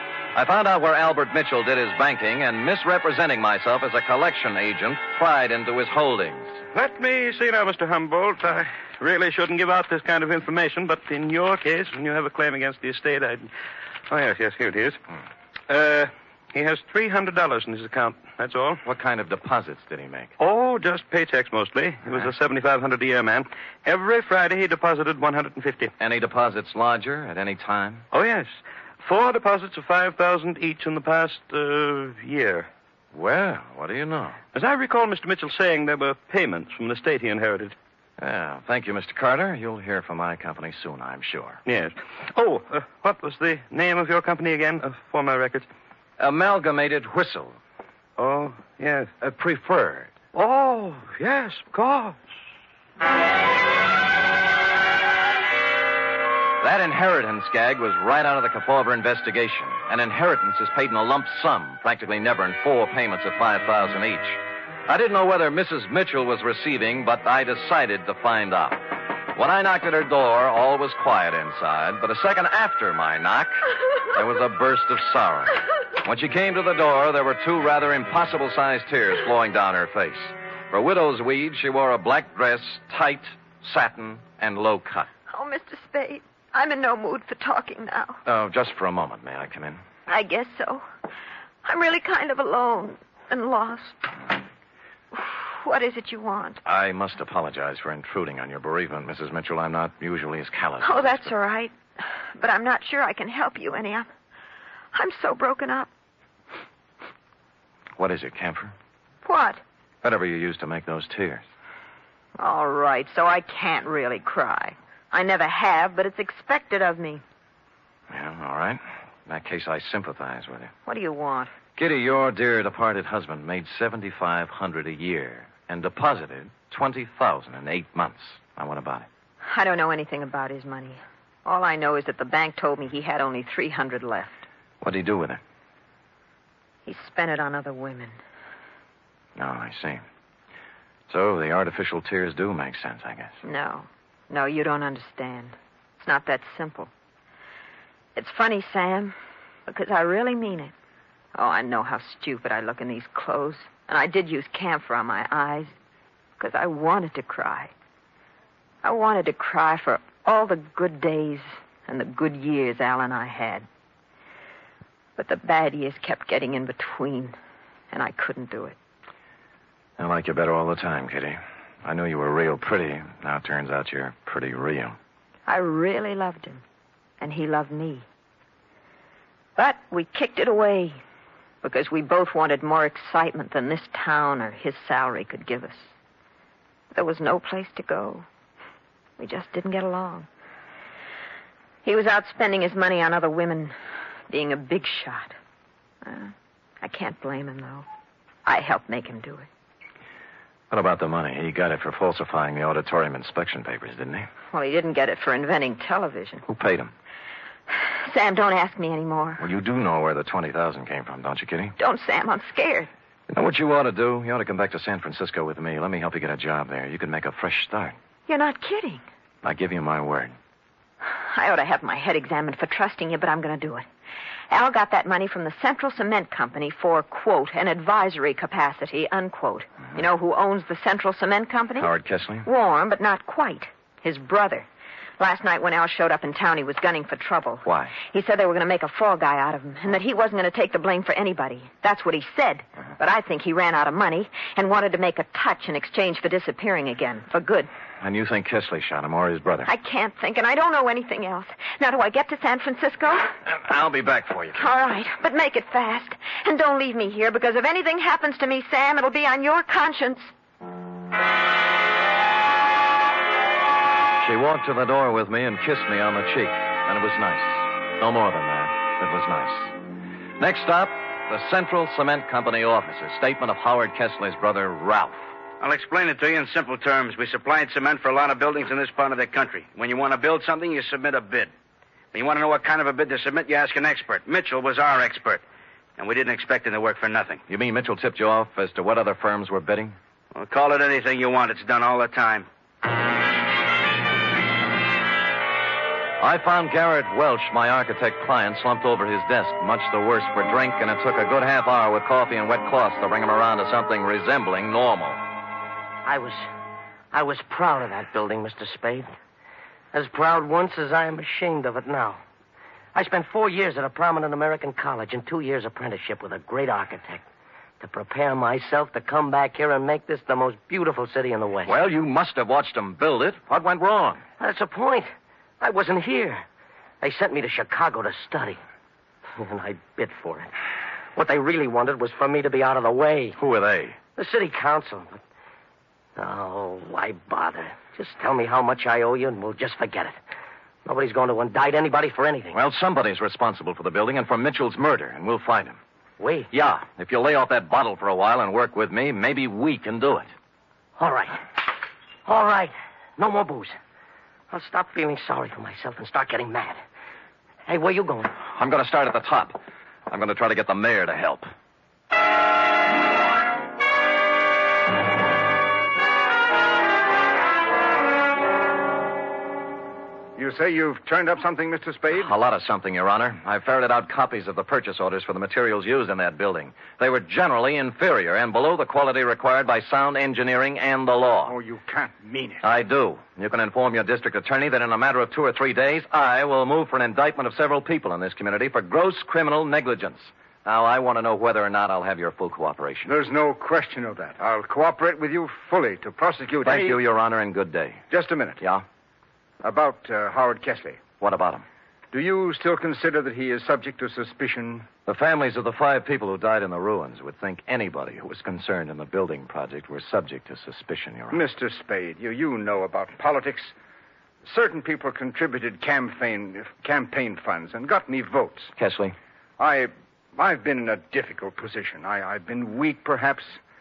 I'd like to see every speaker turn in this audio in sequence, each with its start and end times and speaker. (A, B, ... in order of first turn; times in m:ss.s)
0:00.4-0:06.6 A
0:06.7-0:13.5 B
0:14.1-0:15.0 B
0:15.7-0:18.8 B
0:18.8-0:20.3 A
0:20.4-0:25.9 B
0:26.0-0:28.1 A
0:28.1-0:32.7 B
0:33.1-0:34.4 A
0:34.5-0:37.8 B
0:38.2-0:41.6 A
0:41.7-0:45.7 B
0:46.2-0:47.6 A
0:48.2-0:49.1 B
0:49.2-0:50.2 A
0:50.3-0:52.2 B
0:56.6-1:25.1 A
1:25.3-1:28.2 C
1:28.2-1:29.8 A
1:30.1-1:30.8 C
1:31.6-1:34.0 C
1:35.1-1:36.6 C
1:36.6-1:41.3 A
1:40.8-1:41.7 C
1:42.4-1:44.1 C
1:44.9-1:45.9 C
1:48.0-1:48.7 A
1:49.2-1:49.6 C
1:50.0-1:51.4 A
1:52.4-1:57.2 C
1:58.1-2:00.7 A
2:00.9-2:01.5 C
2:01.8-2:09.1 A
2:09.4-2:14.4 C
2:14.8-2:15.4 A
2:16.9-2:18.2 C
2:19.4-2:20.0 A
2:21.1-2:23.4 A
2:23.4-2:26.9 C
2:28.2-2:29.2 C
2:29.7-2:30.7 C
2:31.4-2:35.7 C
2:36.4-2:37.7 C
2:38.8-2:43.7 C
2:45.2-2:47.4 C
2:47.9-2:48.8 C
2:50.0-2:55.0 A
2:55.5-2:56.6 C
2:57.2-2:58.0 C
2:59.6-3:01.0 C
3:01.6-3:05.9 C
3:06.9-3:08.3 C
3:09.2-3:10.3 C
3:11.8-3:13.8 C
3:14.3-3:15.4 C
3:16.0-3:17.9 C
3:18.5-3:19.5 C
3:20.7-3:24.3 A
3:24.5-3:26.4 C
3:26.5-3:26.9 A
3:27.7-3:29.4 C
3:29.4-3:31.8 A
3:31.8-3:32.9 C
3:33.3-3:38.0 A
3:38.3-3:39.0 C
3:39.4-3:40.4 A
3:41.1-3:43.9 C
3:44.5-3:51.9 C
3:51.8-3:52.5 A
3:52.4-3:54.7 C
3:55.2-4:07.7 C
3:57.6-3:57.9 A
4:08.0-4:09.7 A
4:09.7-4:13.3 C
4:13.4-4:14.6 A
4:14.6-4:20.3 C
4:24.2-4:29.8 A
4:30.4-4:35.2 A
4:35.6-4:41.5 D
4:42.1-4:45.4 D
4:46.0-4:47.4 D
4:47.5-4:50.0 A
4:50.4-4:52.5 D
4:56.2-5:05.2 A
5:06.0-5:06.5 E
5:07.1-5:09.1 E
5:09.9-5:12.2 E
5:12.9-5:17.2 E
5:17.8-5:21.7 E
5:21.7-5:24.2 A
5:24.4-5:25.1 E
5:25.6-5:26.4 E
5:27.0-5:28.6 E
5:29.4-5:30.5 E
5:31.2-5:33.4 E
5:33.4-5:34.0 A
5:34.2-5:35.2 E
5:36.2-5:40.2 E
5:40.8-5:42.6 E
5:42.5-5:45.8 A
5:46.2-5:46.5 E
5:46.5-5:50.3 A
5:51.0-5:51.4 E
5:52.3-5:53.8 E
5:54.5-5:56.8 E
5:57.7-5:58.4 E
5:58.5-6:01.5 A
6:10.4-6:12.3 F
6:12.2-6:21.6 A
6:21.5-6:22.7 F
6:22.6-6:33.1 A
6:33.1-6:37.0 F
6:36.6-6:38.1 A
6:38.1-6:38.6 F
6:38.6-6:38.8 A
6:39.6-6:41.0 F
6:41.2-6:41.6 A
6:42.1-6:44.9 F
6:45.1-6:51.4 A
6:51.3-6:53.7 F
6:54.4-6:58.7 F
6:58.8-6:59.2 A
6:59.6-7:03.6 F